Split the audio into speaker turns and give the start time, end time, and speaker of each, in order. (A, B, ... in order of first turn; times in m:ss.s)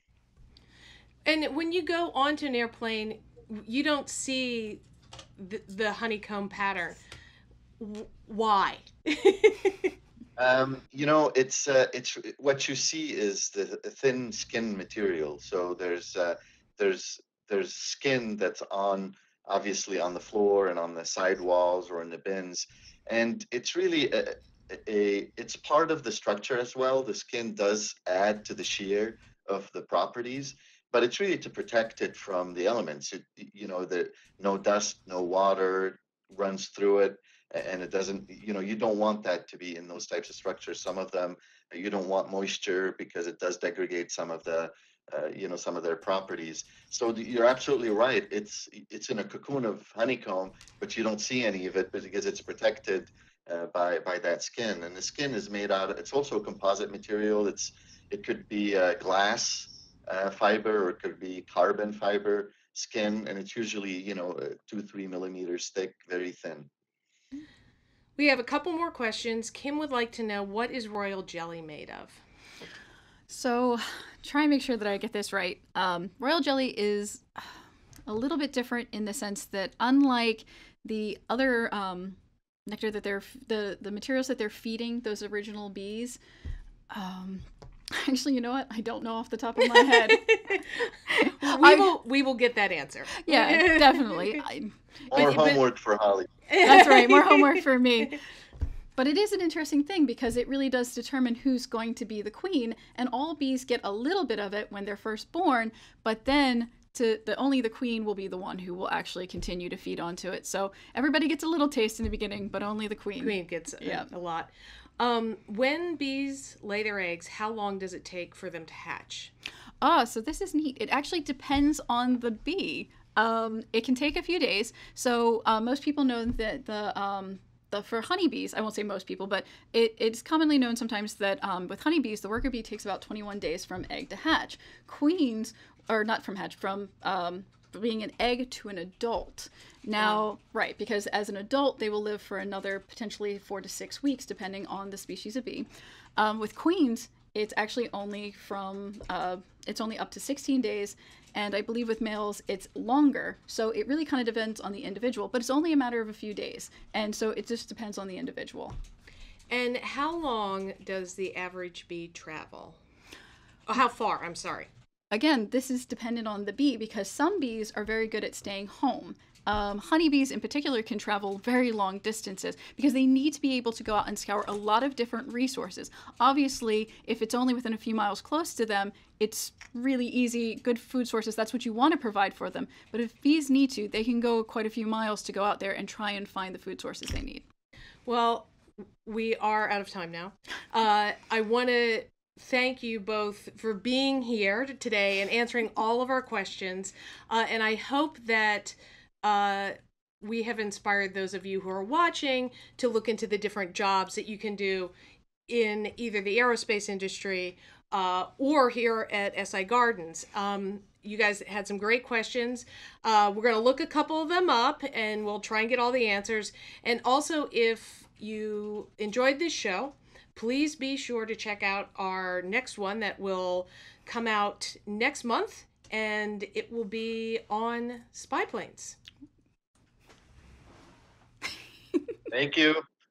0:01.2-0:04.8 A
0:05.4-0:07.0 A
0:07.8-0:09.9 A
0:10.4-1:06.7 B
1:08.2-1:12.2 A
1:13.3-1:17.5 C
1:18.1-1:26.2 C
1:26.9-1:31.9 C
1:29.7-1:34.4 A
1:33.2-1:34.7 C
1:35.1-1:36.3 B
1:35.1-1:35.6 A
1:36.5-1:37.6 A
1:36.6-1:38.2 C
1:39.0-1:54.1 C
1:53.2-1:59.3 A
1:59.8-2:38.8 C
2:20.0-2:20.2 A
2:39.5-2:42.8 A
2:43.7-2:44.7 A
2:45.1-3:07.4 C
3:08.1-3:08.5 A
3:09.0-3:24.9 A
3:25.5-3:49.0 A
3:52.3-3:52.8 B